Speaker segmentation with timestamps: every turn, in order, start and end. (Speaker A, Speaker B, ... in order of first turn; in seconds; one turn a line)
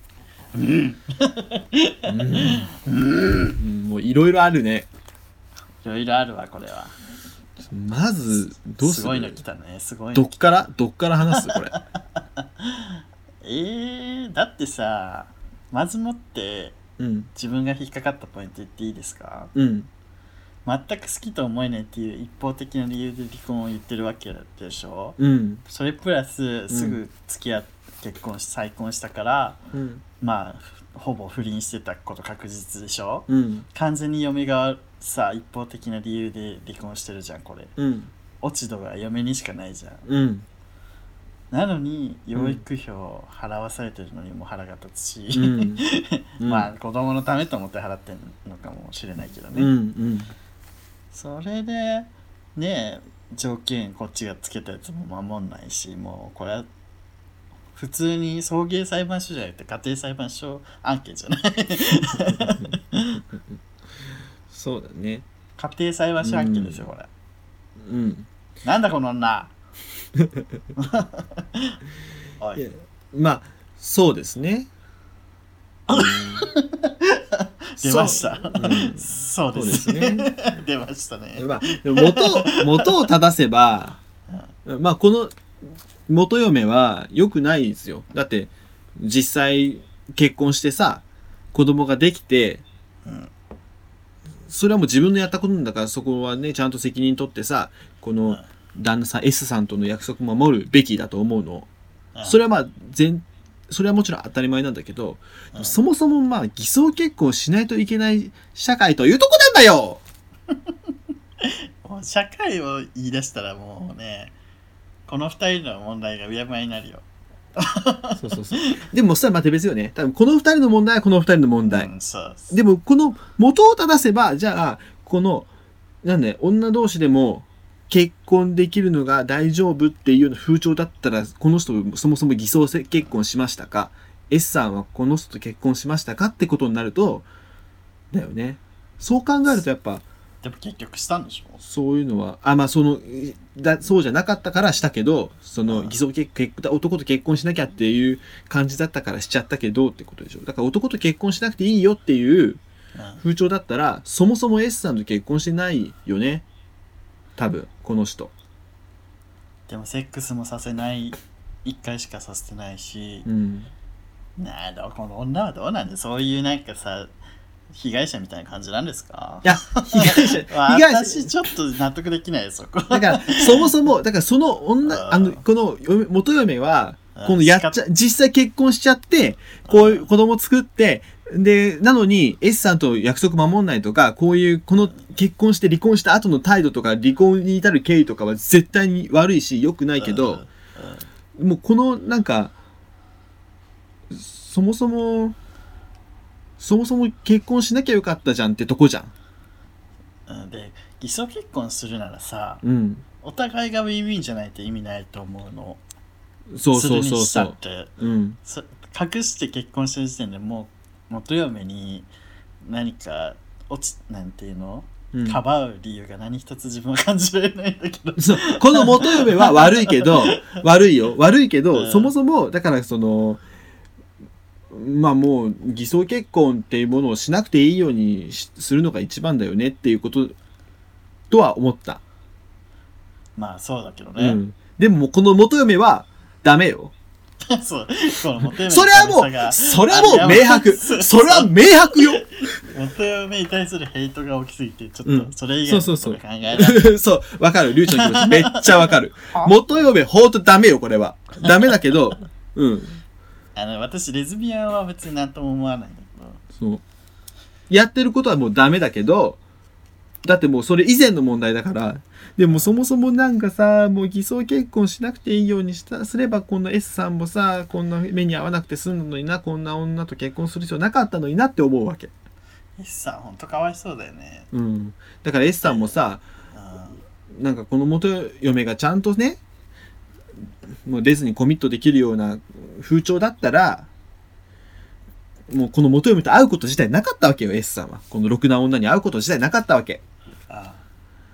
Speaker A: 0.5-3.6
Speaker B: 2.0-2.7
Speaker B: 3.5-4.9
Speaker A: 5.8-7.0
Speaker B: 7.7-9.4
Speaker A: 8.7-10.5
Speaker B: 10.1-11.8
Speaker A: 11.4-16.8
Speaker B: 17.0-17.3
Speaker A: 17.3-19.5
Speaker B: 19.5-19.9
Speaker A: 20.6-29.6
Speaker B: 25.2-25.6
Speaker B: 26.7-27.0
Speaker B: 29.7-30.0
Speaker A: 30.2-37.7
Speaker B: 33.3-33.6
Speaker B: 37.8-38.1
Speaker A: 38.4-40.0
Speaker B: 40.0-40.5
Speaker A: 41.5-49.7
Speaker B: 42.3-42.6
Speaker B: 45.3-45.9
Speaker B: 46.4-46.7
Speaker B: 49.5-50.3
Speaker A: 51.1-56.7
Speaker A: 57.7-63.2
Speaker B: 62.2-62.8
Speaker B: 64.5-65.2
Speaker A: 65.6-67.1
Speaker B: 66.2-66.9
Speaker B: 67.8-68.3
Speaker A: 68.6-69.5
Speaker A: 70.8-71.8
Speaker A: 72.4-72.7
Speaker B: 72.5-74.7
Speaker B: 75.9-76.5
Speaker A: 75.9-83.1
Speaker B: 77.8-80.3
Speaker B: 81.3-84.0
Speaker B: 84.6-85.4
Speaker B: 86.1-91.0
Speaker B: 91.5-92.6
Speaker A: 93.0-93.3
Speaker B: 94.5-101.7
Speaker B: 102.2-110.0
Speaker A: 111.4-114.3
Speaker A: 115.1-117.0
Speaker A: 117.5-118.8
Speaker B: 118.1-121.9
Speaker A: 121.7-122.5
Speaker B: 122.5-125.5
Speaker B: 126.0-137.3
Speaker B: 138.1-140.0
Speaker A: 140.4-141.6
Speaker B: 141.6-152.6
Speaker A: 145.7-145.9
Speaker A: 152.9-153.2
Speaker B: 153.2-156.4
Speaker B: 157.4-158.3
Speaker A: 159.7-163.2
Speaker B: 163.2-163.7
Speaker A: 164.4-167.1
Speaker A: 167.7-173.7
Speaker B: 169.4-171.3
Speaker B: 172.9-190.4
Speaker A: 174.8-175.4
Speaker A: 177.2-177.8
Speaker A: 179.7-180.1
Speaker A: 190.0-191.1
Speaker B: 191.3-192.5
Speaker B: 194.1-195.3
Speaker B: 196.6-199.1
Speaker A: 200.3-202.6
Speaker B: 202.6-203.0
Speaker A: 203.2-205.8
Speaker B: 206.5-208.4
Speaker A: 206.7-207.9
Speaker A: 208.4-212.1
Speaker A: 212.6-220.5
Speaker B: 215.1-215.4
Speaker B: 218.2-223.4
Speaker A: 221.7-222.1
Speaker B: 224.7-230.3
Speaker B: 231.3-232.0
Speaker A: 233.3-234.4
Speaker B: 234.2-236.9
Speaker A: 237.4-246.9
Speaker B: 238.6-242.6
Speaker B: 245.0-253.0
Speaker A: 247.9-249.8
Speaker A: 253.6-256.4
Speaker B: 256.5-256.8
Speaker B: 257.7-259.4
Speaker B: 260.2-272.1
Speaker A: 272.8-274.5
Speaker B: 274.5-276.2
Speaker A: 275.6-275.9
Speaker A: 276.5-277.0
Speaker B: 277.3-279.4
Speaker B: 280.8-283.9
Speaker B: 285.5-290.0
Speaker A: 290.5-290.8